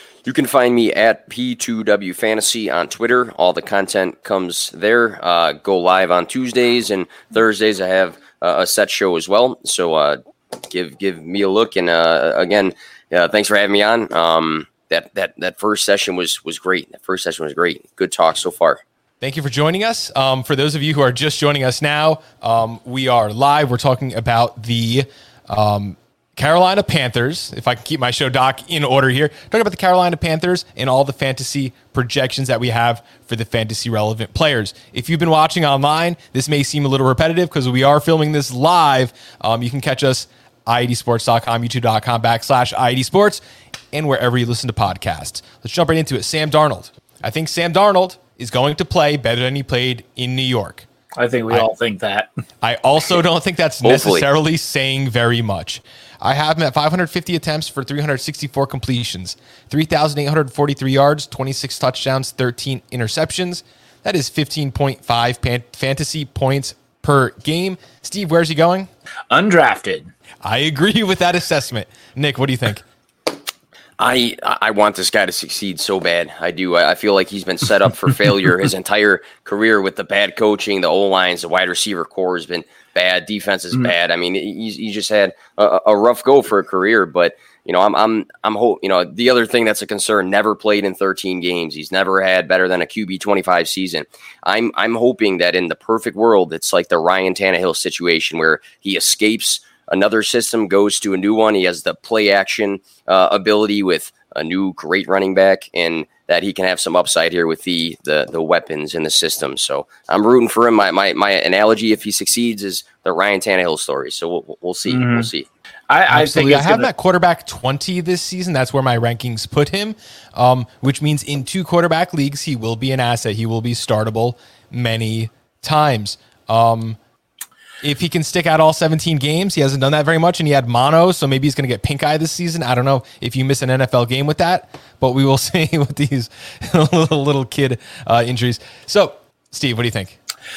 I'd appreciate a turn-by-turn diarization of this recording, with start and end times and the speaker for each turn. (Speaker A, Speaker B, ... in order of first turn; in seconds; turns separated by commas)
Speaker A: 0.2-18.8, Speaker B: 19.2-43.4, Speaker B: 43.9-50.9, Speaker C: 51.2-52.3, Speaker B: 52.6-68.9, Speaker A: 53.8-54.3, Speaker C: 69.3-70.1, Speaker B: 70.4-72.8, Speaker A: 74.0-115.5, Speaker C: 114.9-115.3, Speaker C: 115.9-116.9, Speaker B: 116.1-127.0, Speaker B: 127.8-140.2